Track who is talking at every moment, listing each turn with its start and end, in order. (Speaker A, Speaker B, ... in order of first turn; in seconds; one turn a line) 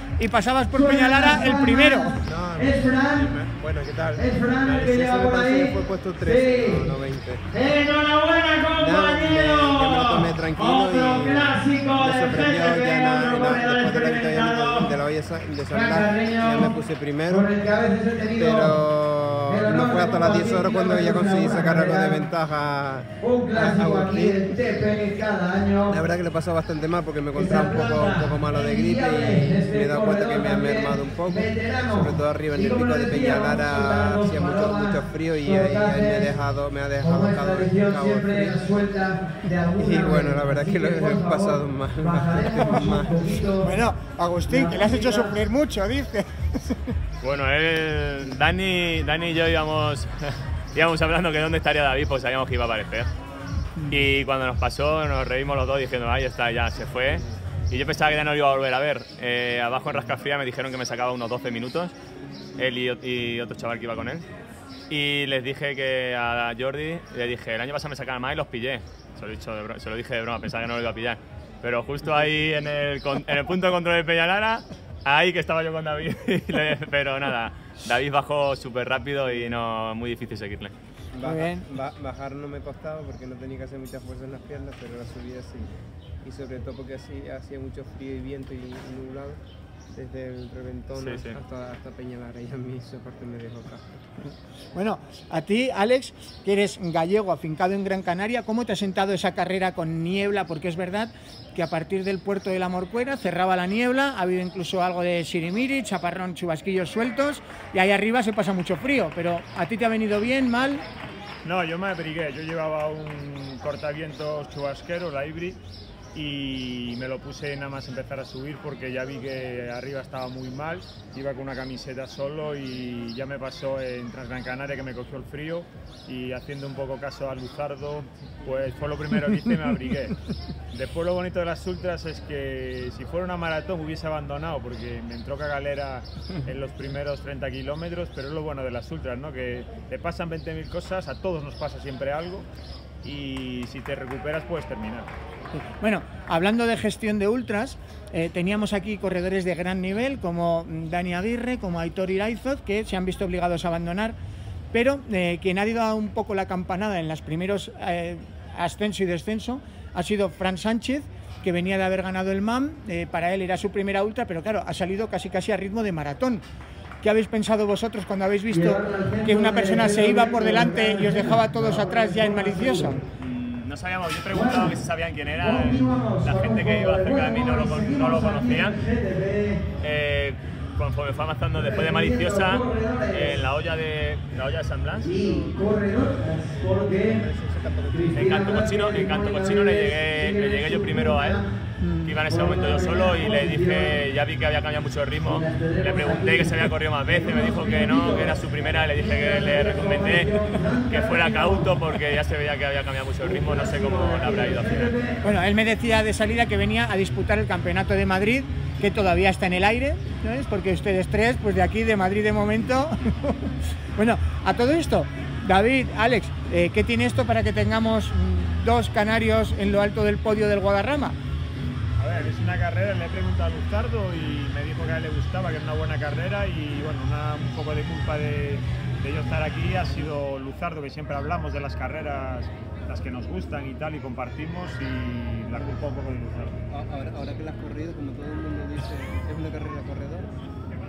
Speaker A: 0.2-2.2
Speaker B: 0.7-3.3
Speaker C: 2.2-7.5
Speaker B: 4.2-6.9
Speaker B: 7.5-14.9
Speaker C: 8.8-17.5
Speaker B: 15.7-16.8
Speaker B: 17.3-18.8
Speaker C: 18.3-24.5
Speaker B: 19.5-22.3
Speaker B: 23.2-26.0
Speaker C: 25.9-38.6
Speaker B: 27.3-36.4
Speaker B: 37.0-43.7
Speaker C: 39.8-43.3
Speaker A: 43.6-46.9
Speaker B: 44.5-45.4
Speaker D: 47.2-53.1
Speaker D: 53.9-61.9
Speaker D: 62.6-64.3
Speaker D: 64.9-80.7
Speaker C: 81.1-85.7
Speaker A: 81.2-81.7
Speaker C: 86.2-89.4
Speaker C: 89.9-94.1
Speaker D: 91.0-91.4
Speaker A: 94.7-110.8
Speaker E: 111.5-115.6
Speaker E: 116.1-130.2
Speaker E: 130.7-142.5
Speaker E: 143.0-145.1
Speaker A: 145.8-154.2
Speaker A: 154.7-166.4
Speaker A: 167.0-173.0
Speaker B: 168.5-173.0
Speaker D: 173.2-178.8
Speaker B: 174.3-174.8
Speaker B: 175.4-179.7
Speaker D: 179.8-185.1
Speaker B: 181.6-183.4
Speaker B: 185.0-187.2
Speaker C: 185.2-185.6
Speaker C: 186.8-188.6
Speaker B: 187.9-191.5
Speaker D: 188.1-191.4
Speaker A: 191.8-192.2
Speaker D: 192.0-204.9
Speaker B: 192.3-194.0
Speaker B: 195.2-201.8
Speaker B: 203.2-205.2
Speaker A: 205.2-221.2
Speaker E: 222.0-236.6
Speaker C: 235.5-235.9
Speaker C: 236.7-240.3